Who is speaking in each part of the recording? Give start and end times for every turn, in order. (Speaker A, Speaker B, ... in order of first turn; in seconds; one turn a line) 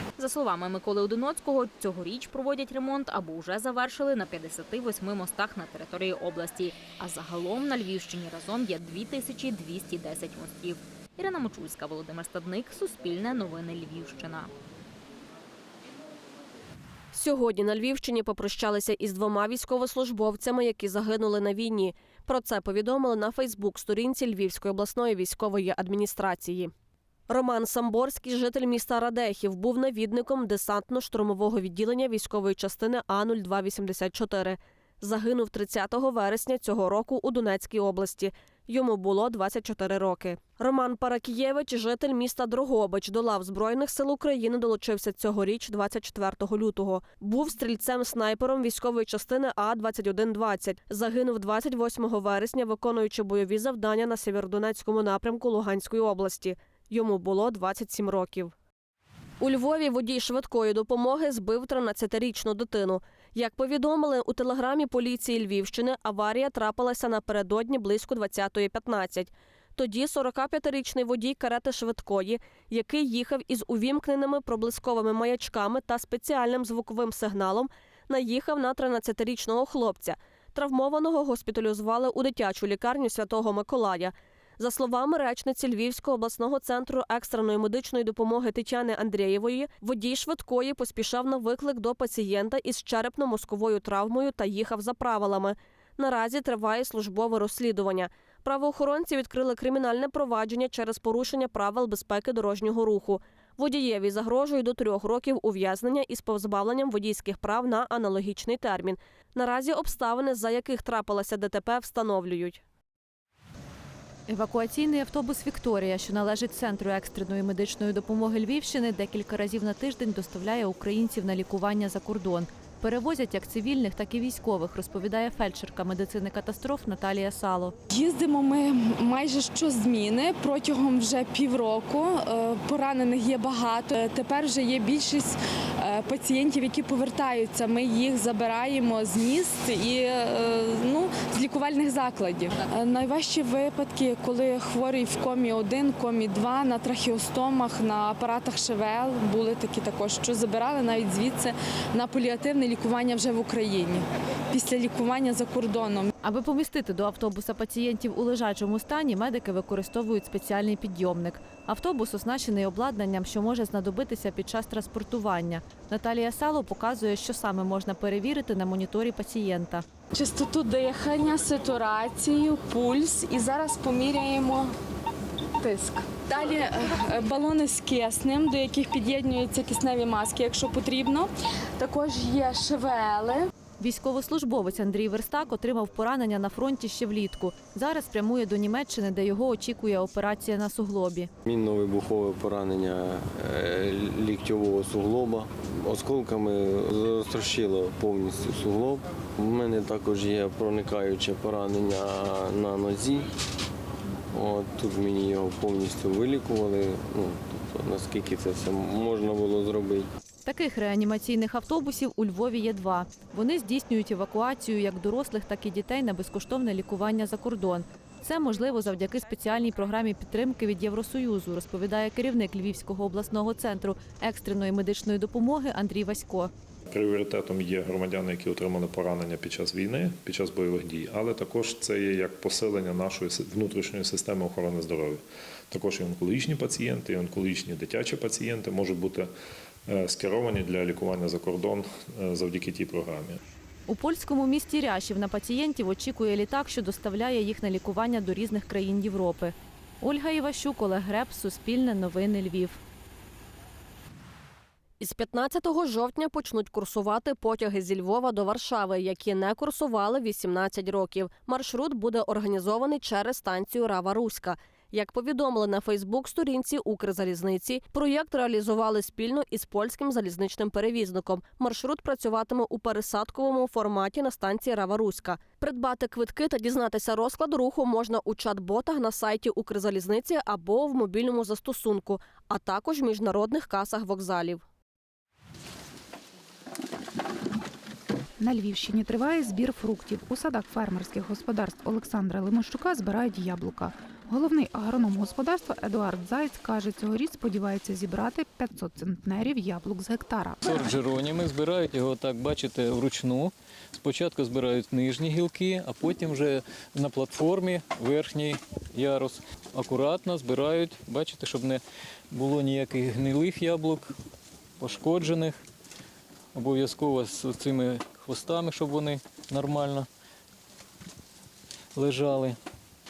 Speaker A: 0.2-14.5
Speaker B: 17.1-26.7
Speaker B: 27.3-58.5
Speaker B: 59.4-112.6
Speaker C: 114.3-127.7
Speaker D: 127.9-156.1
Speaker C: 156.2-169.8
Speaker D: 170.1-174.7
Speaker D: 175.6-183.5
Speaker C: 183.8-191.3
Speaker E: 191.4-203.3
Speaker E: 204.3-210.1
Speaker C: 210.4-226.5
Speaker F: 226.9-239.3
Speaker F: 239.9-243.4
Speaker C: 243.9-252.8
Speaker B: 255.0-284.6
Speaker G: 288.4-300.8
Speaker H: 300.6-314.1
Speaker H: 314.8-315.6
Speaker H: 316.5-320.1
Speaker H: 321.9-322.6